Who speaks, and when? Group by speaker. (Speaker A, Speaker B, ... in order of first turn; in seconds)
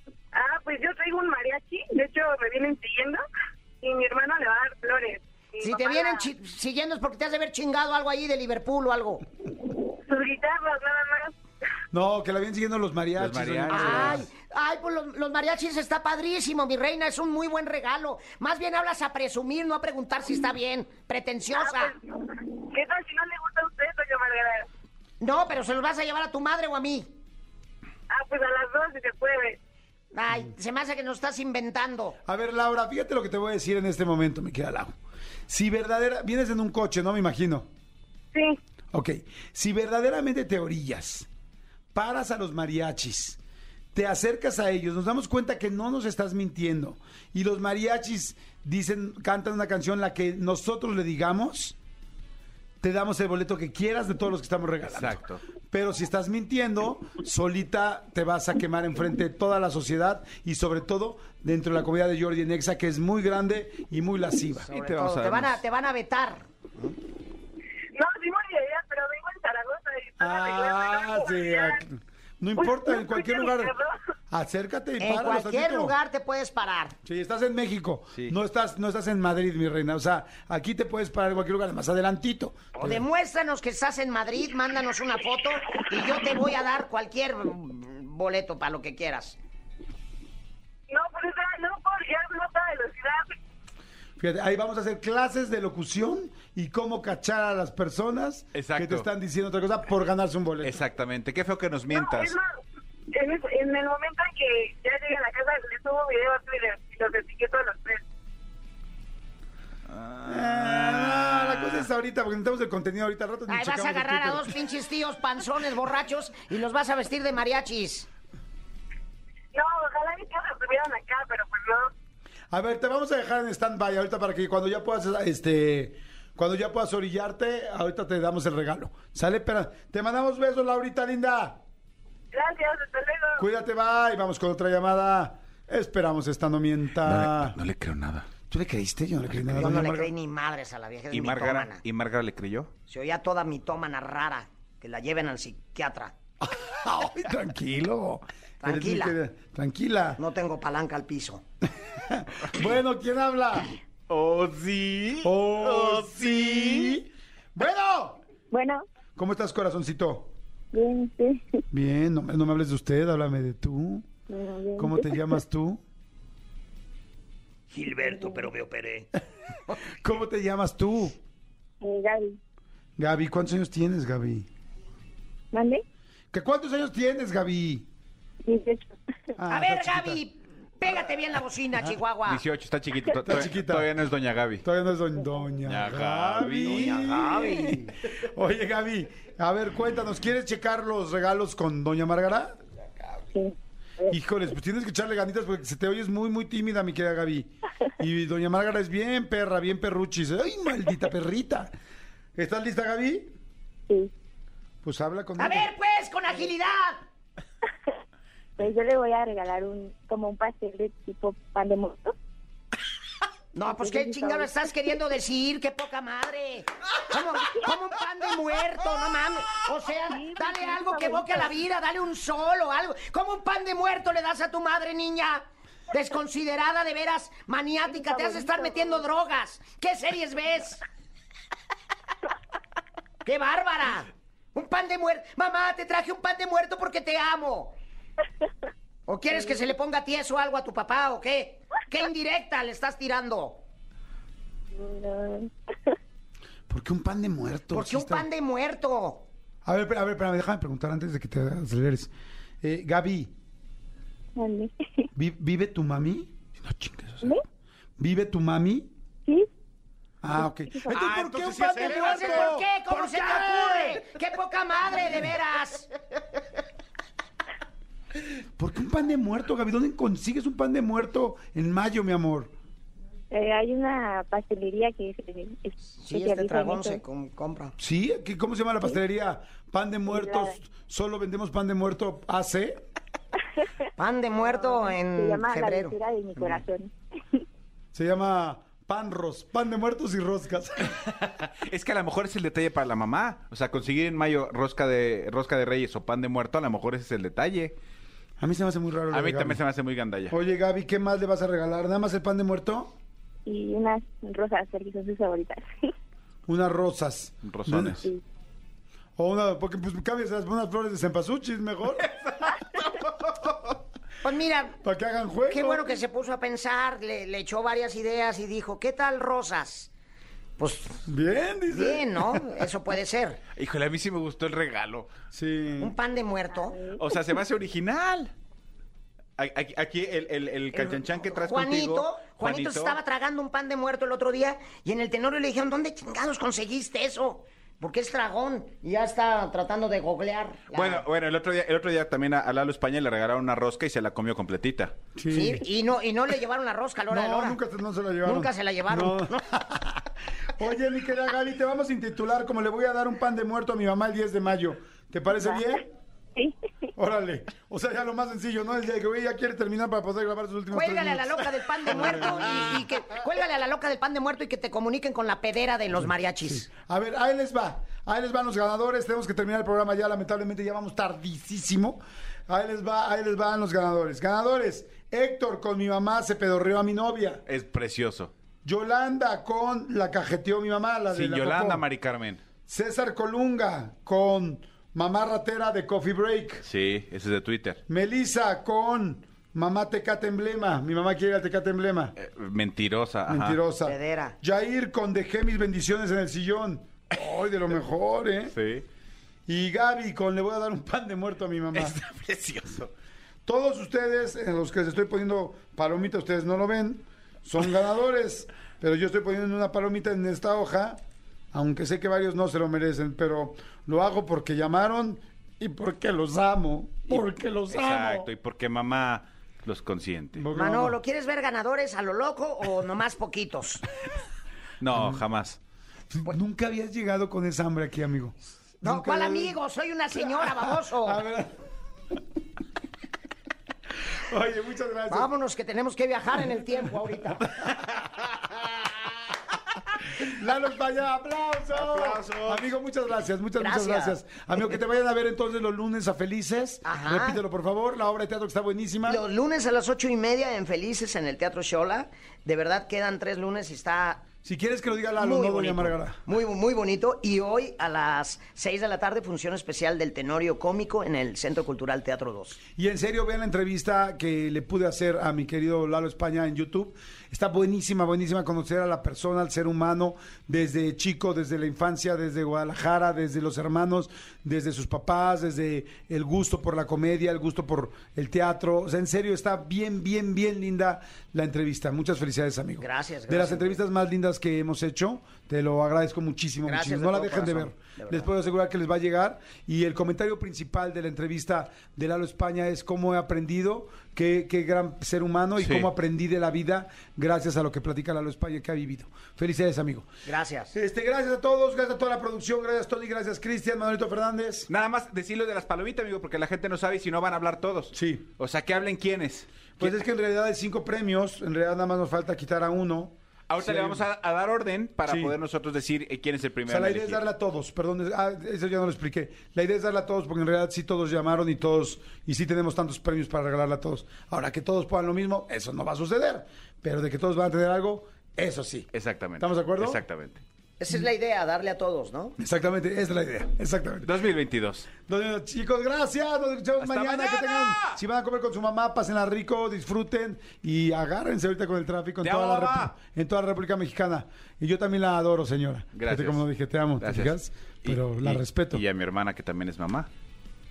Speaker A: 0.3-3.2, 3.8-6.3, 9.9-11.3, 21.5-24.7, 28.1-29.6, 38.3-38.6, 67.9-71.8, 72.6-74.0, 90.9-93.3, 101.9-102.5, 103.1-108.0, 119.5-121.9, 132.3-133.4, 160.8-161.1, 171.8-172.3, 178.5-178.7, 220.2-221.3, 254.4-254.7
Speaker B: 5.6-9.2, 13.7-21.9, 25.2-27.1, 30.1-32.2, 64.7-66.9, 75.0-77.0, 82.8-89.4, 113.5-118.1, 139.6-141.8, 142.9-146.2, 148.6-149.2, 150.2-151.4, 167.7-169.1, 179.4-182.4, 186.6-187.9, 205.4-207.0, 213.5-230.8, 233.2-237.8, 239.1-243.6, 247.7-249.2, 260.9-265.9, 276.0-277.8, 284.0-286.0, 314.2-314.8, 315.5-319.9, 320.6-321.1, 321.7-323.4, 325.8-326.9, 330.7-341.0, 345.3-347.6, 348.2-349.3, 360.7-366.7, 393.8-394.4, 420.5-423.8, 428.8-431.2, 435.1-437.5, 443.6-444.7, 446.9-447.4, 449.0-454.3, 455.2-462.6, 482.8-483.8, 486.7-488.3, 500.2-500.8, 530.8-532.4
Speaker C: 11.9-14.3, 32.3-35.0, 35.5-37.7, 38.9-41.3, 41.9-43.4, 43.9-51.8, 52.8-64.7, 70.2-73.7, 74.3-76.0, 77.0-83.1, 94.2-100.8, 110.3-114.6, 122.5-131.6, 133.4-137.6, 138.5-140.1, 146.4-150.2, 151.9-153.8, 155.2-158.2, 159.2-160.3, 161.7-164.1, 164.8-165.8, 169.9-171.2, 173.0-174.5, 176.3-177.9, 179.4-180.2, 183.2-183.9, 184.6-192.6, 194.1-201.7, 202.4-203.3, 204.8-205.7, 246.7-248.3, 249.7-252.1, 252.6-253.3, 255.2-256.4, 258.0-258.9, 260.2-264.0, 268.6-272.5, 277.8-282.8, 287.9-291.0, 298.4-299.6, 300.3-302.9, 306.5-308.1, 309.2-312.1, 314.8-316.0, 321.1-322.4, 325.3-325.9, 345.2-345.7, 347.1-355.9, 357.0-362.8, 366.4-377.4, 378.6-381.8, 382.7-386.6, 387.9-392.1, 393.3-398.5, 399.5-402.0, 403.5-411.0, 411.5-418.3, 420.4-421.0, 424.9-425.2, 426.2-429.6, 430.3-431.6, 434.1-435.3, 440.2-449.2, 454.4-456.2, 462.8-500.1, 500.7-504.7, 507.9-508.3, 509.8-514.1, 515.1-515.4, 516.7-530.0, 532.4-534.1, 535.1-548.8
Speaker D: 13.2-14.3, 54.8-55.4, 64.7-65.6, 98.5-99.1, 100.6-102.4, 109.9-111.8, 137.0-138.3, 139.3-139.8, 141.1-142.7, 154.1-157.0, 182.3-184.7, 185.6-187.3, 256.7-257.2, 260.9-262.6, 291.0-297.8, 299.1-300.4, 307.4-308.1, 312.0-313.8, 323.6-325.1, 327.0-328.3, 329.4-333.0, 340.7-344.9, 377.5-378.3, 381.1-382.4, 386.6-387.8, 392.2-393.6, 398.5-398.9, 401.7-402.9, 417.1-420.4, 424.8-425.6, 441.7-442.7, 495.6-495.9, 504.7-510.0, 513.5-517.2, 528.9-530.4, 534.0-534.9, 536.8-538.0, 542.2-542.9, 545.9-546.5, 547.0-550.1
Speaker E: 158.5-158.8, 164.3-165.2, 193.3-194.1, 208.6-212.1, 213.7-214.6, 228.3-228.8, 244.8-245.5, 273.3-277.0, 284.5-286.9, 303.5-305.7